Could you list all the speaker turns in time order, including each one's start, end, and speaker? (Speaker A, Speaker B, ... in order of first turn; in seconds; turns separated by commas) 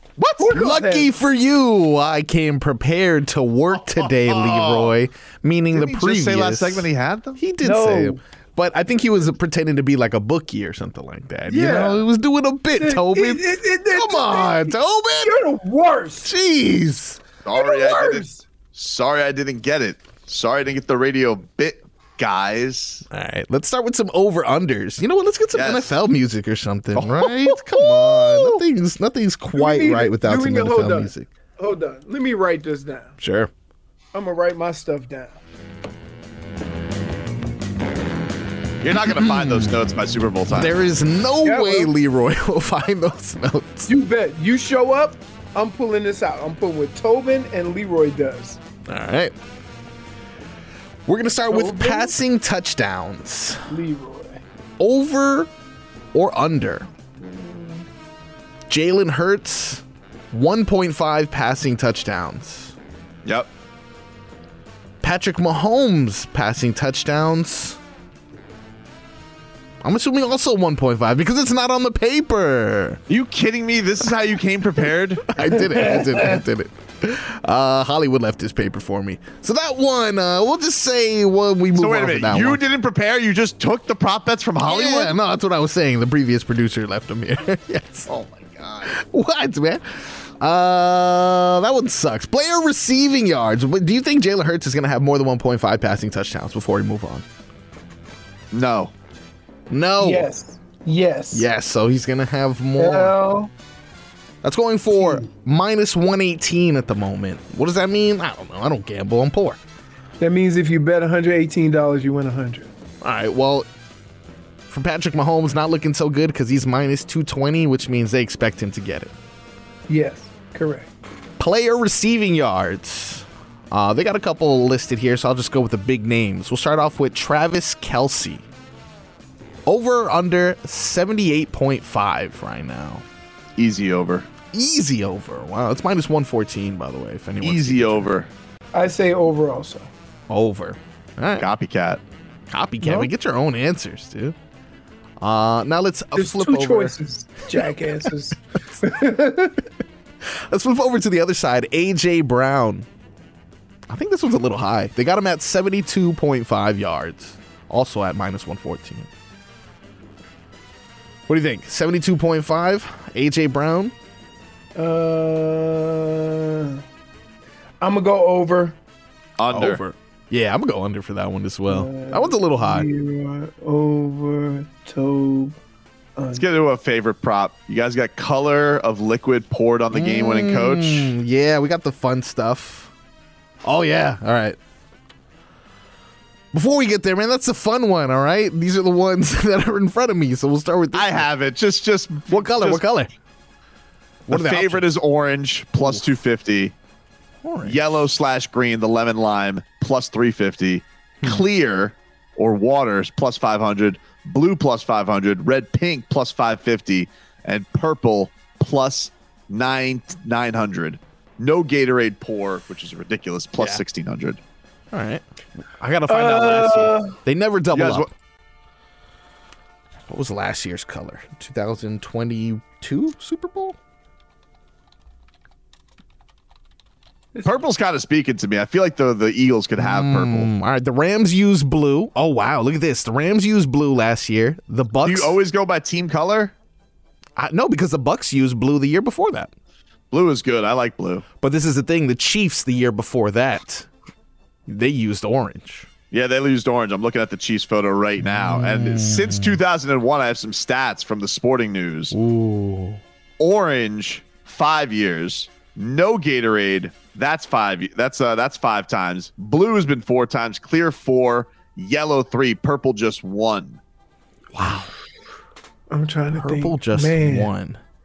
Speaker A: 0.2-6.9, Speaker B: 0.4-1.1, Speaker C: 3.8-4.9, Speaker C: 5.7-7.4, Speaker A: 7.4-15.3, Speaker B: 7.6-8.2, Speaker B: 11.5-12.1, Speaker B: 12.8-16.3, Speaker A: 16.2-17.2, Speaker C: 17.4-23.1, Speaker B: 17.5-18.4, Speaker A: 23.1-31.3, Speaker C: 25.5-26.0, Speaker C: 26.9-27.6, Speaker C: 28.3-28.6, Speaker B: 29.5-33.1, Speaker A: 33.2-33.5, Speaker B: 34.1-35.4, Speaker C: 38.8-40.8, Speaker A: 39.1-39.8, Speaker A: 40.5-43.9, Speaker B: 41.4-41.9, Speaker B: 43.9-48.6, Speaker A: 48.9-49.3, Speaker A: 51.1-53.6, Speaker B: 51.5-52.1, Speaker B: 53.7-54.4, Speaker A: 54.8-55.5, Speaker A: 56.1-56.9, Speaker B: 57.2-57.8, Speaker A: 58.7-62.7, Speaker A: 65.0-67.8, Speaker A: 69.8-73.0, Speaker C: 73.1-75.3, Speaker A: 75.3-82.6, Speaker B: 75.7-76.4, Speaker C: 81.8-85.1, Speaker A: 84.6-88.1, Speaker C: 88.1-88.9, Speaker A: 88.9-97.2, Speaker C: 98.5-98.9, Speaker A: 99.7-100.3, Speaker B: 100.0-101.5, Speaker A: 101.3-103.1, Speaker B: 102.8-103.5, Speaker A: 104.4-109.6, Speaker B: 105.0-105.2, Speaker B: 110.2-112.7, Speaker A: 113.0-113.7, Speaker A: 114.7-119.1, Speaker B: 119.9-120.9, Speaker A: 121.4-128.4, Speaker A: 129.7-133.0, Speaker C: 133.6-134.3, Speaker A: 134.5-138.1, Speaker C: 137.4-138.3, Speaker B: 138.7-139.9, Speaker A: 140.3-141.5, Speaker C: 141.4-142.0, Speaker A: 142.5-144.4, Speaker B: 142.8-143.1, Speaker A: 145.2-146.9, Speaker B: 146.1-149.6, Speaker A: 150.5-152.9, Speaker A: 153.9-159.1, Speaker A: 161.3-163.9, Speaker B: 164.8-166.8, Speaker B: 167.8-168.8, Speaker C: 169.4-169.8, Speaker A: 169.5-172.9, Speaker B: 171.7-175.6, Speaker B: 176.2-176.4, Speaker C: 176.3-181.1, Speaker A: 179.9-182.9, Speaker A: 183.6-184.6, Speaker A: 186.5-191.3, Speaker C: 190.9-192.8, Speaker A: 192.3-193.1, Speaker A: 194.3-194.9, Speaker C: 194.3-196.7, Speaker A: 197.4-197.8, Speaker C: 197.6-214.4, Speaker A: 214.9-218.1, Speaker B: 216.1-217.2, Speaker C: 217.7-218.1, Speaker A: 220.1-223.8, Speaker C: 227.4-230.5, Speaker A: 229.8-235.4, Speaker C: 235.1-236.5, Speaker A: 237.4-239.5, Speaker C: 240.1-241.2, Speaker A: 241.4-243.9, Speaker A: 244.7-245.9, Speaker C: 246.1-252.1, Speaker A: 248.2-249.6, Speaker A: 252.1-253.0, Speaker C: 253.4-263.8, Speaker A: 264.5-264.9, Speaker B: 265.9-267.5, Speaker A: 266.4-267.8